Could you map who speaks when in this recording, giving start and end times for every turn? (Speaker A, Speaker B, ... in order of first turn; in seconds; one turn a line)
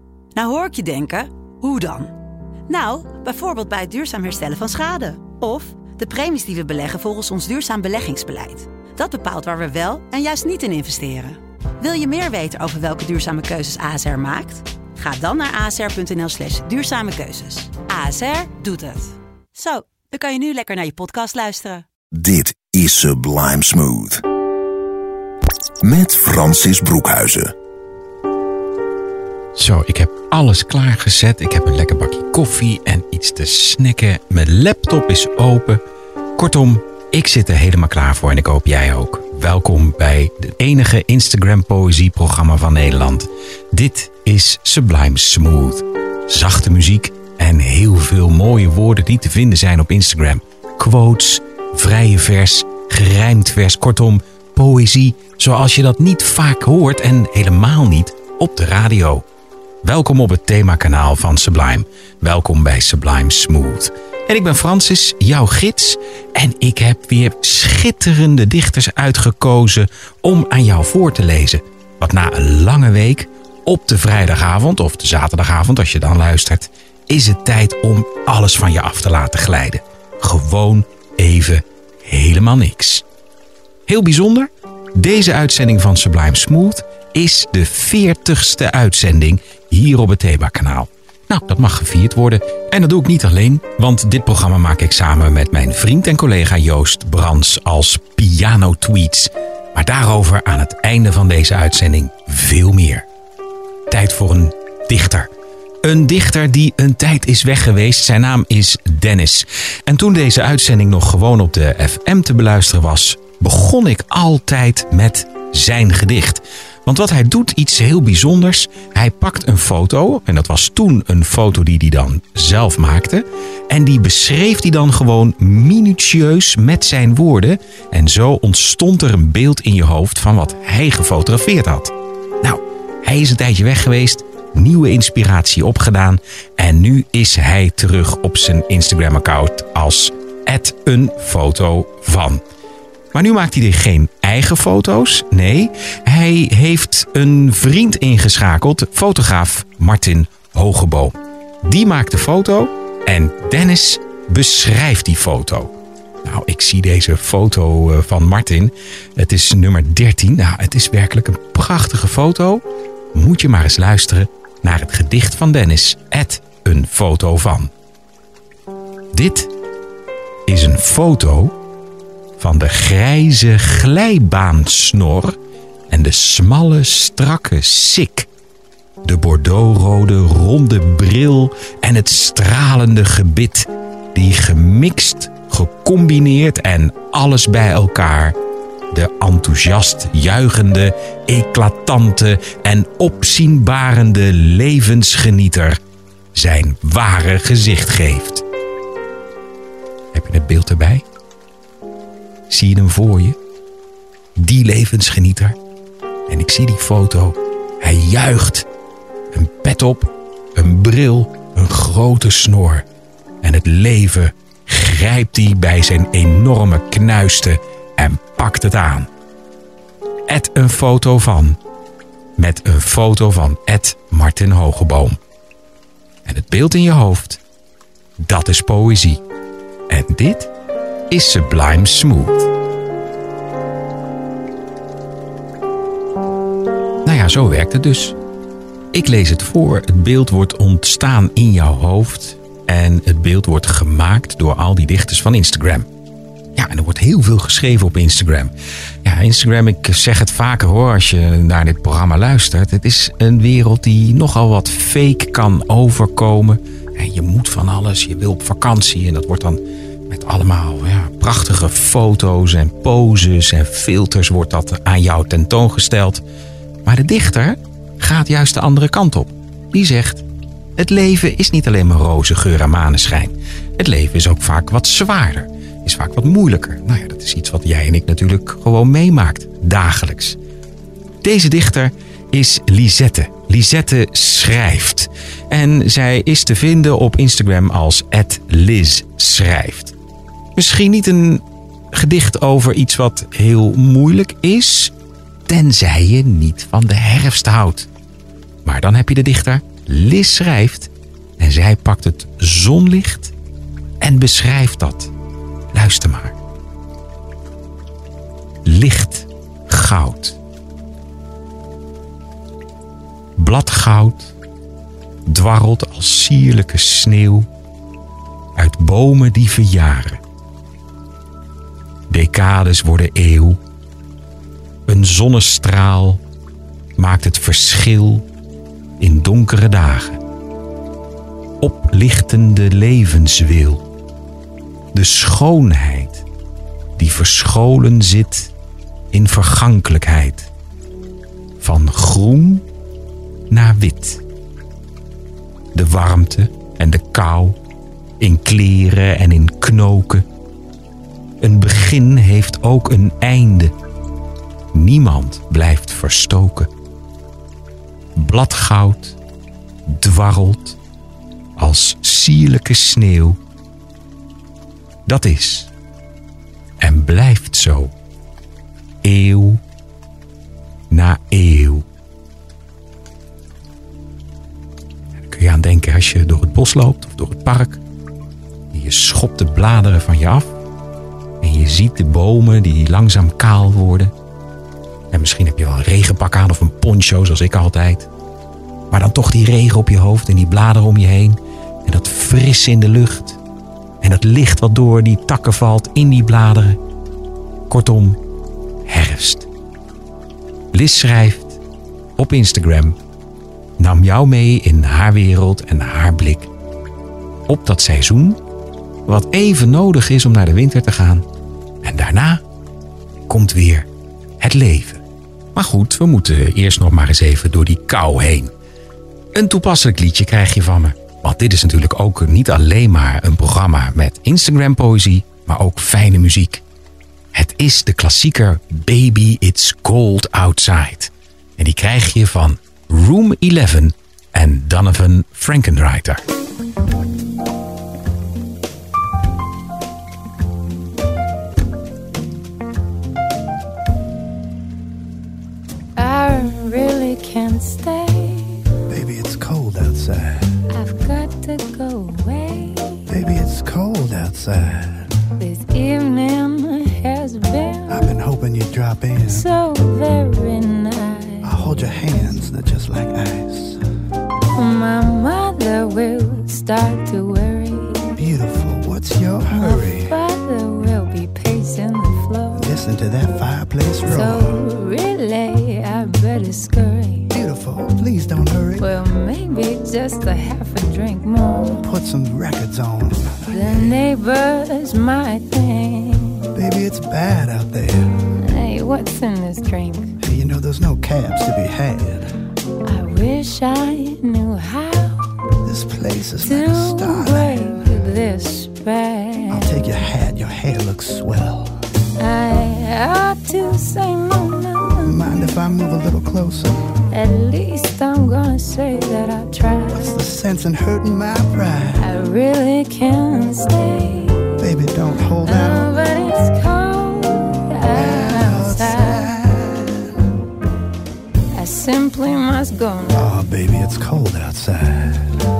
Speaker A: 0.3-2.1
Speaker A: 2.7-21.9
Speaker B: 22.1-24.2
Speaker B: 25.8-27.5
Speaker C: 29.5-35.8
Speaker C: 36.4-59.2
Speaker C: 59.8-83.0
Speaker C: 83.9-103.0
Speaker C: 103.9-105.3
Speaker C: 105.8-142.4
Speaker C: 143.1-155.7
Speaker C: 156.2-162.6
Speaker C: 163.1-167.7
Speaker C: 169.1-169.5
Speaker C: 170.5-171.5
Speaker C: 172.4-175.3
Speaker C: 175.9-178.3
Speaker C: 179.0-188.3
Speaker C: 188.9-195.8
Speaker C: 196.3-198.4
Speaker C: 200.1-201.0
Speaker C: 202.5-203.3
Speaker C: 204.3-205.6
Speaker C: 206.3-208.7
Speaker C: 209.3-212.8
Speaker C: 213.4-219.1
Speaker C: 220.3-221.6
Speaker C: 222.4-225.2
Speaker C: 226.2-227.4
Speaker C: 228.2-229.2
Speaker C: 229.9-230.5
Speaker C: 231.1-232.5
Speaker C: 237.0-238.2
Speaker C: 238.9-245.8
Speaker C: 246.6-248.5
Speaker C: 249.0-266.2
Speaker C: 266.8-270.2
Speaker C: 270.8-280.4
Speaker C: 281.2-289.9
Speaker C: 290.6-294.9
Speaker C: 295.5-297.9
Speaker C: 298.6-303.3
Speaker C: 304.0-305.1
Speaker C: 305.7-306.4
Speaker C: 308.6-310.4
Speaker C: 313.4-314.3
Speaker C: 315.3-317.5
Speaker C: 318.6-320.2
Speaker C: 322.1-323.6
Speaker C: 324.9-326.2
Speaker C: 327.0-328.2
Speaker C: 329.0-330.2
Speaker C: 331.6-333.8
Speaker C: 334.9-336.2
Speaker C: 337.0-338.5
Speaker C: 339.1-340.5
Speaker C: 341.6-342.6
Speaker C: 343.5-344.2
Speaker C: 345.7-347.6
Speaker C: 348.2-350.2
Speaker C: 351.4-353.7
Speaker C: 354.7-356.7
Speaker C: 358.1-359.2
Speaker C: 359.9-360.8
Speaker C: 361.6-363.4
Speaker C: 365.1-365.7
Speaker C: 366.8-367.9
Speaker C: 369.0-369.6
Speaker C: 370.9-371.8
Speaker C: 375.2-377.8
Speaker C: 378.7-380.5
Speaker C: 381.4-384.1
Speaker C: 385.1-388.1
Speaker C: 388.9-393.4
Speaker C: 394.0-396.8
Speaker C: 397.7-398.2
Speaker C: 398.9-399.5
Speaker C: 400.7-401.6
Speaker C: 402.2-402.9
Speaker C: 403.8-406.5
Speaker C: 407.5-408.4
Speaker C: 409.1-411.2
Speaker C: 411.8-412.4
Speaker C: 413.3-413.9
Speaker C: 414.4-415.0
Speaker C: 415.5-418.5
Speaker C: 419.3-426.6
Speaker C: 427.3-436.2
Speaker D: 445.9-448.6
Speaker E: 448.9-450.5
Speaker D: 450.7-453.1
Speaker E: 453.1-455.1
Speaker D: 455.4-458.1
Speaker E: 457.9-459.5
Speaker D: 459.2-462.4
Speaker E: 461.4-463.8
Speaker D: 464.5-468.1
Speaker E: 468.1-470.1
Speaker D: 469.5-472.7
Speaker E: 472.5-474.6
Speaker D: 474.1-477.3
Speaker E: 477.3-478.9
Speaker D: 478.8-481.8
Speaker E: 481.8-484.0
Speaker D: 483.5-486.5
Speaker E: 486.5-488.2
Speaker D: 488.4-490.1
Speaker E: 490.2-492.3
Speaker D: 492.8-495.3
Speaker E: 495.6-497.8
Speaker D: 496.4-499.7
Speaker E: 499.5-501.8
Speaker D: 502.2-505.3
Speaker E: 505.0-506.9
Speaker D: 507.1-510.1
Speaker E: 509.9-512.0
Speaker D: 512.0-514.5
Speaker E: 514.6-515.9
Speaker D: 515.4-519.3
Speaker E: 517.9-520.4
Speaker D: 521.5-523.3
Speaker E: 523.1-525.4